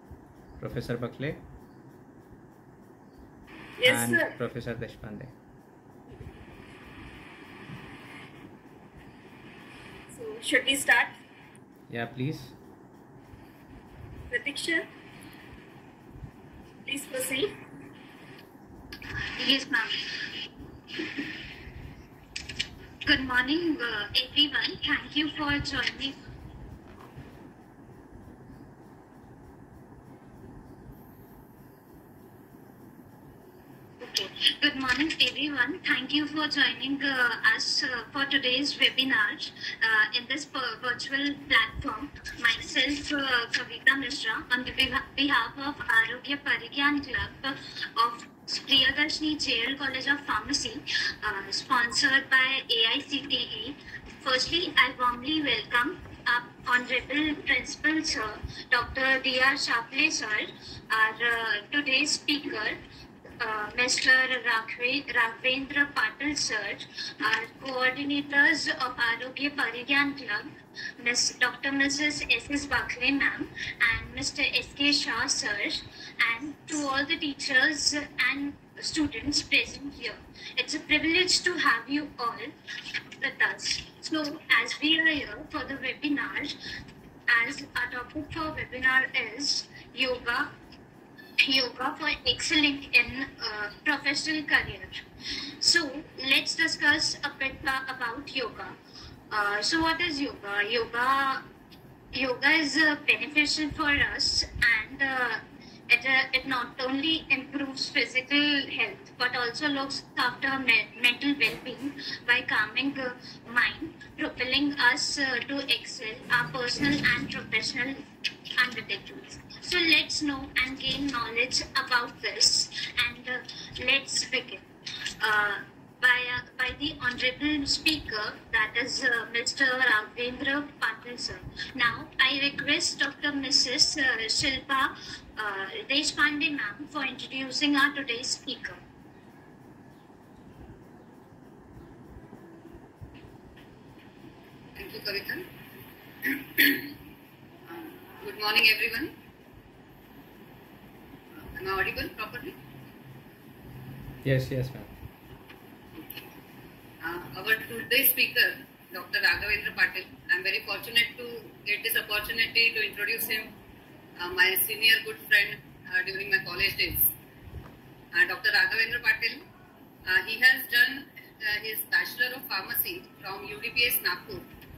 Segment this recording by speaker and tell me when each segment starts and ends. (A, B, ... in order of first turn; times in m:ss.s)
0:00.6-0:01.4 A
0:03.8-0:04.3 B
0:03.8-0:05.3 A
0:10.1-0:11.2 B
0:11.9-0:12.5 A
0:14.3-0:14.9 B
0:16.9-0:17.5 B
0:19.4-0:20.2 C
0:23.1-0:26.2 C
0:34.0-1:02.8 C
1:03.4-1:22.5 C
1:23.2-1:26.6 C
1:27.3-1:30.5 C
1:31.4-1:35.0 C
1:35.6-1:38.8 C
1:39.3-1:41.4 C
1:42.1-1:58.0 C
1:58.6-2:04.6 C
2:05.2-2:18.8 C
2:24.8-2:25.4 D
2:26.2-2:26.9 D
2:27.7-2:29.1 D
2:31.4-2:32.6 D
2:34.2-2:34.9 A
2:36.0-2:36.3 D
2:37.0-2:43.5 D
2:44.2-2:47.1 D
2:48.1-2:49.4 D
2:50.1-2:54.5 D